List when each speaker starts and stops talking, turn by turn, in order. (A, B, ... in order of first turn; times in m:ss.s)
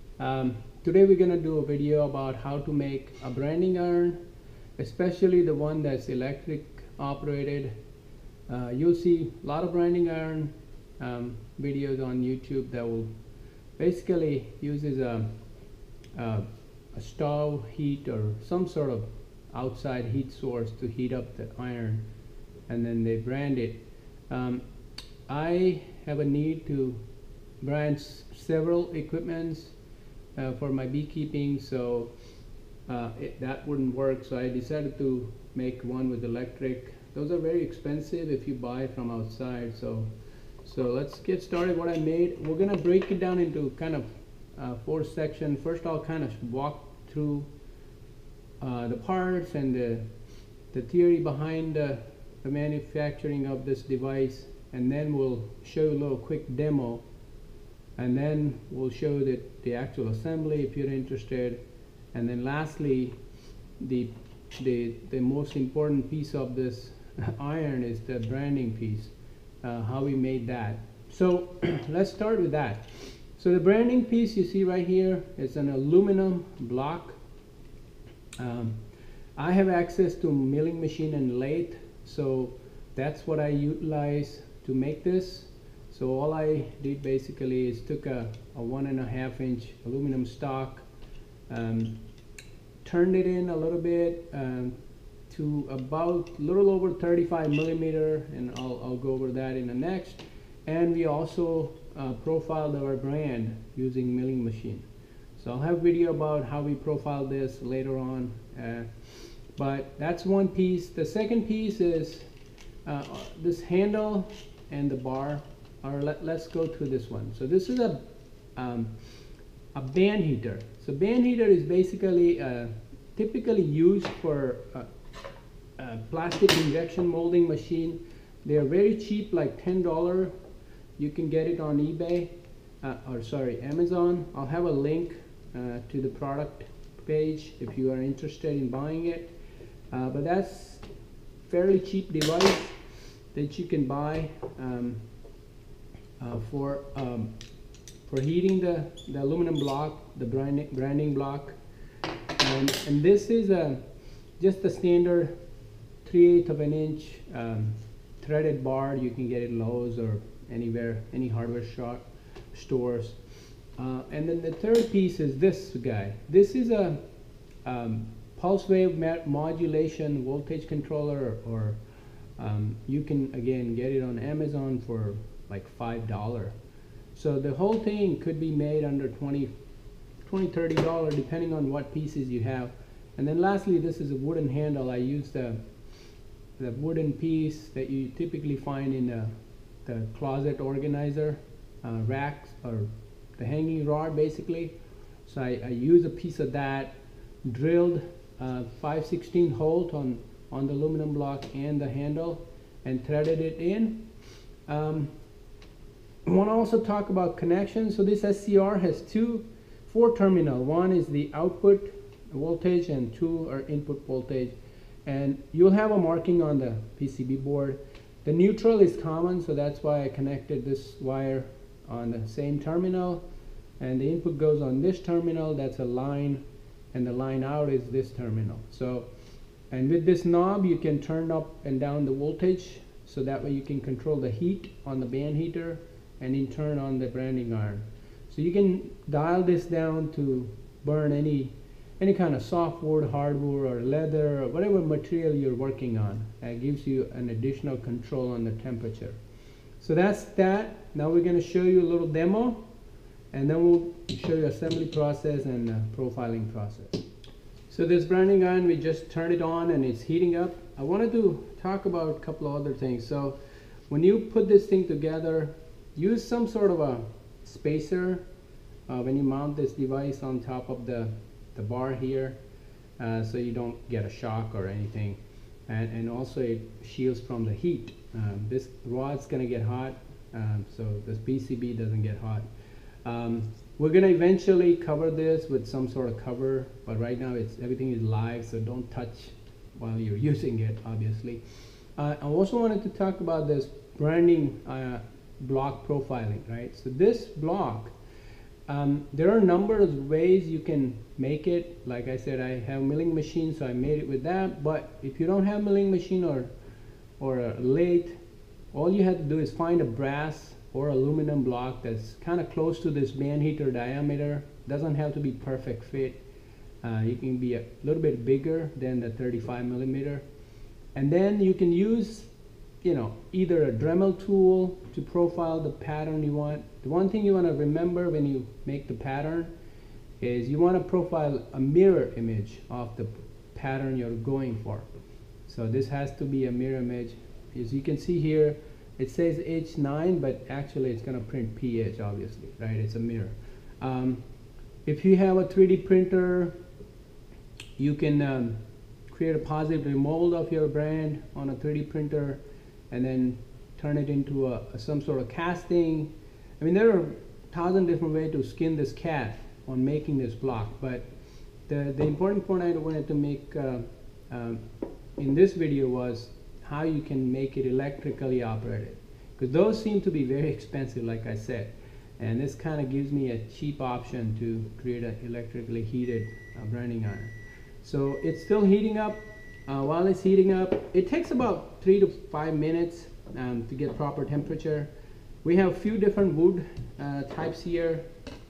0:00.2-0:04.2 A
0:04.8-0:07.7 A
0:08.5-0:13.1 A
0:13.8-0:15.4 A
0:16.1-0:22.0 A
0:22.7-0:24.6 A
0:25.3-0:27.0 A
0:27.6-0:29.8 A
0:30.4-0:32.1 A
0:32.9-0:40.1 A
0:40.6-0:47.5 A
0:48.6-0:50.1 A
0:50.7-0:57.0 A
0:58.0-1:01.6 A
1:02.1-1:03.2 A
1:03.8-1:17.2 A
1:18.4-1:18.8 A
1:19.4-1:30.9 A
1:31.5-1:32.0 A
1:32.8-1:52.3 A
1:52.8-1:59.0 A
1:59.7-2:04.9 A
2:05.8-2:10.3 A
2:11.0-2:19.3 A
2:19.9-2:20.8 A
2:21.4-2:22.8 A
2:23.3-2:25.0 A
2:26.2-2:27.3 A
2:28.1-2:31.6 A
2:32.4-2:33.8 A
2:34.4-2:35.4 A
2:36.0-2:43.2 A
2:43.8-2:47.0 A
2:47.6-2:51.8 A
2:52.4-2:56.6 A
2:57.1-2:59.5 A
3:00.2-3:05.6 A
3:06.6-3:09.3 A
3:09.8-3:24.1 A
3:24.7-3:25.1 A
3:26.2-3:34.5 A
3:35.1-3:43.2 A
3:43.8-3:49.1 A
3:49.7-4:09.2 A
4:09.8-4:12.6 A
4:13.3-4:17.1 A
4:17.7-4:28.2 A
4:28.9-4:32.4 A
4:33.0-4:42.5 A
4:43.0-4:51.4 A
4:52.0-4:57.9 A
4:58.7-5:06.5 A
5:07.2-5:08.2 A
5:08.7-5:16.2 A
5:16.8-5:20.2 A
5:21.0-5:22.3 A
5:22.8-5:29.5 A
5:30.2-5:34.9 A
5:35.5-5:44.2 A
5:44.8-5:46.6 A
5:47.8-6:01.1 A
6:01.7-6:04.6 A
6:05.2-6:24.9 A
6:25.4-6:28.1 A